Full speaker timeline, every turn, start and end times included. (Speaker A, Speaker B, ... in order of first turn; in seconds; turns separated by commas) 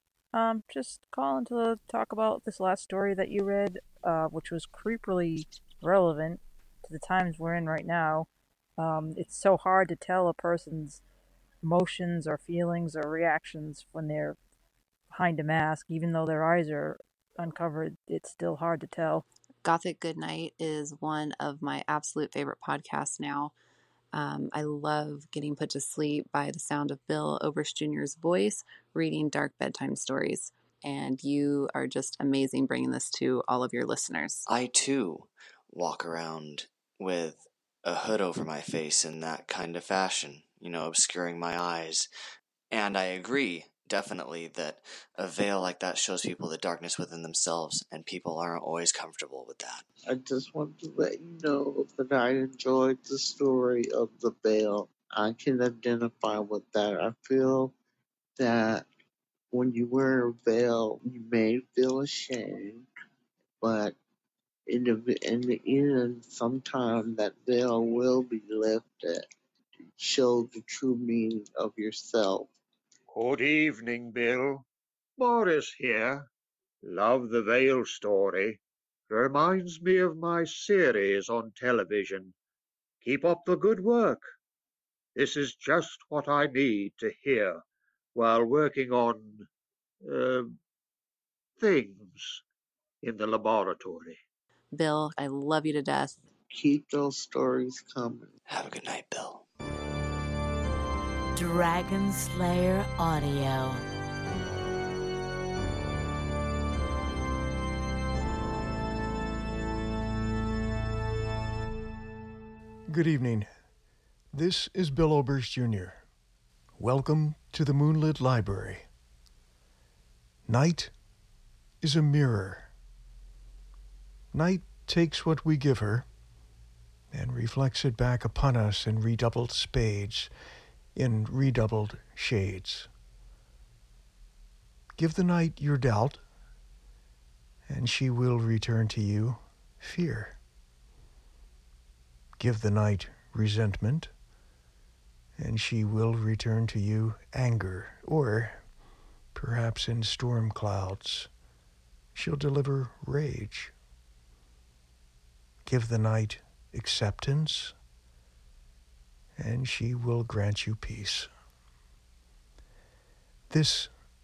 Speaker A: 0.3-11.0, Speaker A: 11.6-14.4, Speaker A: 15.1-19.2, Speaker B: 19.6-23.5, Speaker B: 24.1-34.5, Speaker C: 34.5-42.1, Speaker C: 42.7-49.8, Speaker D: 50.1-57.7, Speaker D: 58.4-58.9, Speaker D: 59.5-62.9, Speaker D: 63.6-64.0, Speaker D: 64.7-69.2, Speaker D: 70.0-72.5, Speaker E: 73.1-74.6, Speaker E: 75.2-76.2, Speaker E: 76.8-82.3, Speaker E: 83.0-84.2, Speaker E: 85.1-87.6, Speaker E: 88.1-89.4, Speaker E: 90.0-90.5, Speaker E: 91.6-92.4, Speaker E: 93.0-94.2, Speaker B: 94.7-96.2, Speaker D: 96.5-98.3, Speaker C: 98.5-99.4, Speaker F: 101.3-103.8, Speaker G: 112.9-113.5, Speaker G: 114.3-116.0, Speaker G: 116.8-118.8, Speaker G: 120.5-120.9, Speaker G: 121.8-122.7, Speaker G: 124.3-126.0, Speaker G: 127.1-130.3, Speaker G: 130.9-132.9, Speaker G: 135.0-136.2, Speaker G: 137.7-140.4, Speaker G: 142.4-144.1, Speaker G: 145.4-148.6, Speaker G: 149.3-151.3, Speaker G: 152.1-153.7, Speaker G: 155.7-157.7, Speaker G: 159.4-161.3, Speaker G: 163.5-163.9